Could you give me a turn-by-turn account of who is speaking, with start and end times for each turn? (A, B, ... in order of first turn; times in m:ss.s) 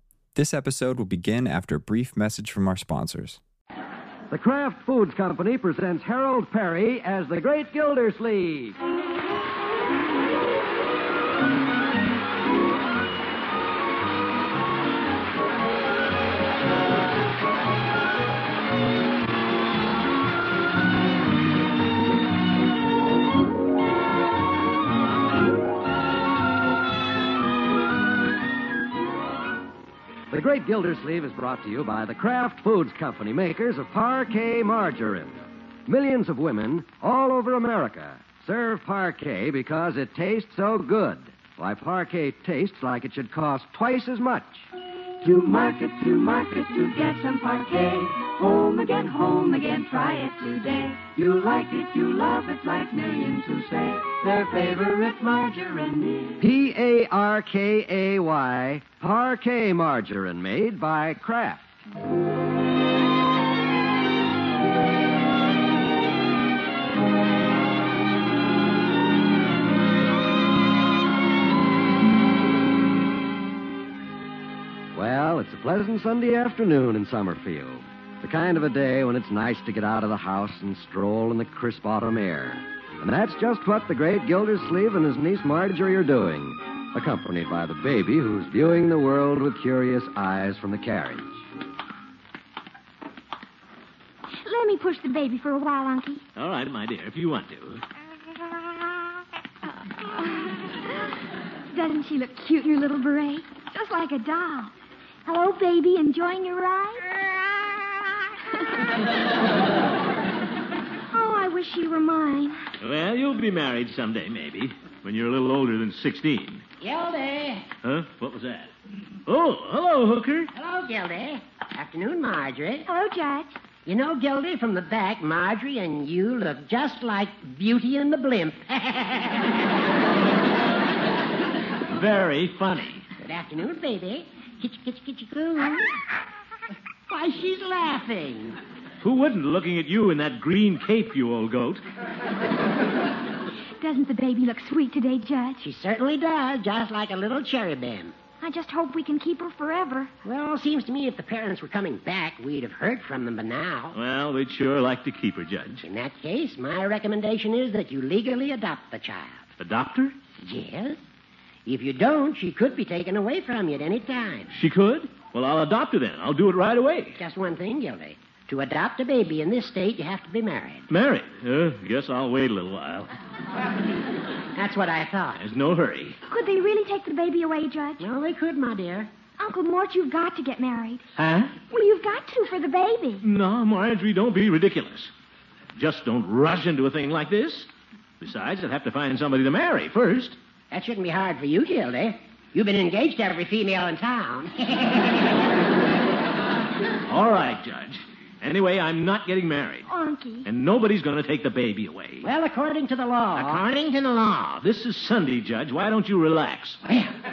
0:00.3-0:03.4 A
0:04.3-0:08.8 B
0:30.3-0:44.7 B
0:45.2-0:56.4 C
0:56.4-1:01.6 B
1:14.9-1:31.2 B
1:34.4-1:36.2 D
1:36.4-1:37.8 E
1:40.0-1:41.1 D
1:41.7-1:44.7 D
1:45.2-1:47.1 D
1:51.1-1:52.6 D
1:52.8-1:56.6 E
1:56.8-1:57.7 F
1:57.8-1:58.7 E
1:59.2-2:00.5 E
2:00.5-2:02.9 F
2:02.9-2:03.5 D
2:03.9-2:09.5 F
2:11.9-2:13.0 E
2:13.2-2:15.9 F
2:17.1-2:18.6 F
2:19.0-2:21.8 E
2:23.8-2:25.6 D
2:25.6-2:28.2 F
2:28.4-2:30.1 D
2:30.2-2:34.0 F
2:33.9-2:35.9 E
2:35.8-2:39.4 F
2:39.6-2:40.1 E
2:40.4-2:41.0 F
2:41.7-2:44.5 F
2:44.5-2:47.2 E
2:47.2-2:50.8 F
2:50.9-2:53.1 E
2:54.6-2:55.4 F
2:55.3-2:56.2 E
2:56.3-2:58.0 D
2:58.0-2:59.1 F
2:59.4-3:01.0 D
3:01.2-3:01.5 E
3:01.7-3:03.2 D
3:03.2-3:05.1 E
3:05.8-3:07.7 E
3:08.2-3:10.4 E
3:10.7-3:15.2 F
3:17.1-3:19.9 E
3:19.9-3:20.5 D
3:20.4-3:22.3 E
3:22.2-3:23.7 F
3:23.3-3:26.8 E
3:26.8-3:27.1 F